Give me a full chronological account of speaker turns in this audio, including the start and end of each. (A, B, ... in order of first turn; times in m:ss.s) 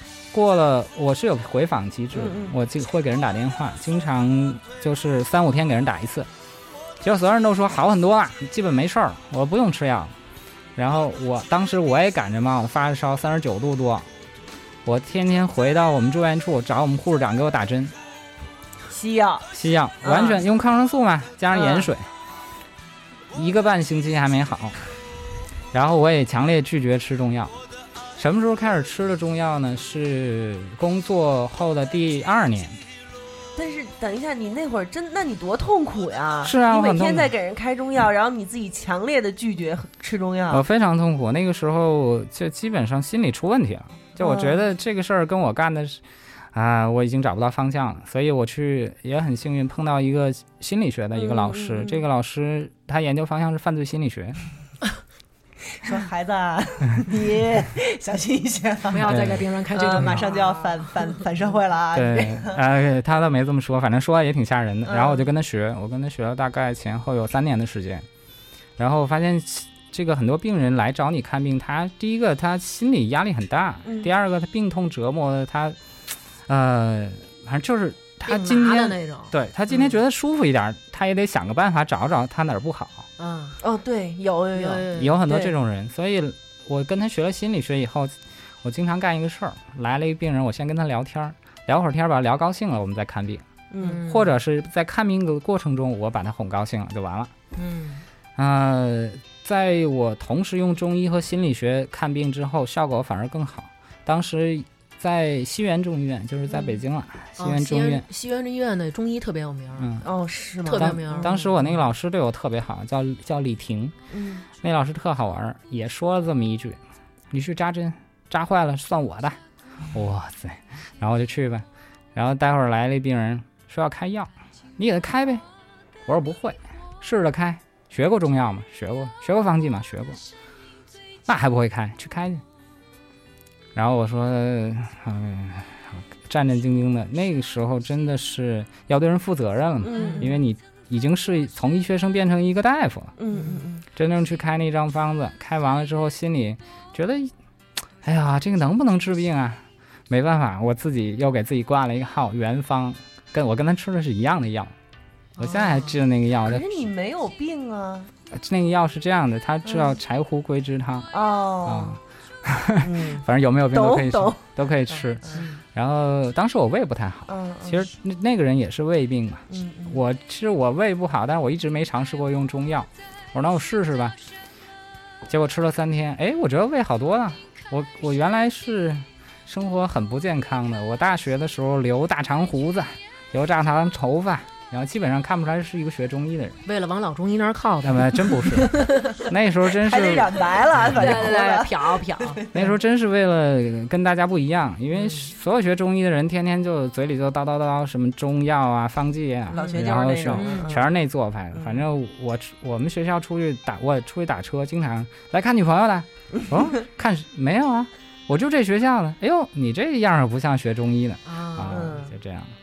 0:00.3-0:06.3 A
0:02.1-0:02.5 B
0:07.0-0:10.1 A
0:10.8-0:14.1 A
0:14.8-0:17.9 A
0:18.9-0:19.5 B
0:19.5-0:22.1 A
0:20.0-0:20.4 B
0:21.5-0:21.9 B
0:23.3-0:24.8 A
0:25.7-0:27.6 A
0:28.2-0:32.8 A
0:33.6-0:40.6 B
0:36.4-0:37.3 A
0:40.5-0:46.0 A
0:44.2-0:44.6 B
0:46.5-0:54.4 A
0:51.1-0:52.0 B
0:55.8-0:59.1 B
0:58.9-1:01.1 C
0:59.1-0:59.4 A
0:59.7-1:02.6 B
1:01.9-1:08.1 A
1:04.8-1:05.3 B
1:08.8-1:15.8 A
1:13.8-1:14.1 B
1:16.5-1:23.1 A
1:18.2-1:19.3 C
1:23.2-1:23.6 C
1:23.6-1:25.4 B
1:24.5-1:25.5 C
1:25.0-1:33.4 A
1:33.7-1:34.0 B
1:33.8-1:34.3 C
1:34.0-1:37.3 A
1:37.6-1:38.0 C
1:38.4-1:48.0 A
1:47.4-1:49.9 C
1:49.8-1:50.1 A
1:50.0-1:51.3 B
1:50.6-1:51.8 C
1:50.7-1:53.9 A
1:54.1-1:54.4 B
1:54.6-1:56.8 A
1:57.3-1:59.4 A
1:59.9-2:05.4 A
2:06.0-2:10.2 A
2:11.2-2:12.4 A
2:13.7-2:23.1 A
2:19.8-2:20.4 B
2:20.0-2:20.3 C
2:23.2-2:23.8 B
2:23.3-2:23.6 C
2:24.0-2:27.3 A
2:28.0-2:34.7 A
2:35.4-2:36.0 C
2:35.4-2:36.6 A
2:36.4-2:38.1 B
2:38.3-2:54.2 A
2:39.6-2:40.0 B
2:41.1-2:42.0 B
2:42.8-2:45.4 B
2:45.3-2:45.6 C
2:47.3-2:47.8 B
2:49.5-2:50.0 B
2:55.2-3:06.6 A
3:06.6-3:09.2 C
3:07.8-3:10.3 A
3:09.8-3:12.5 B
3:10.9-3:12.7 C
3:11.0-3:11.3 A
3:12.5-3:32.5 A
3:14.9-3:15.3 C
3:19.5-3:20.9 B
3:20.3-3:20.7 C
3:21.5-3:21.8 B
3:26.3-3:26.7 B
3:31.2-3:31.9 C
3:31.7-3:32.1 B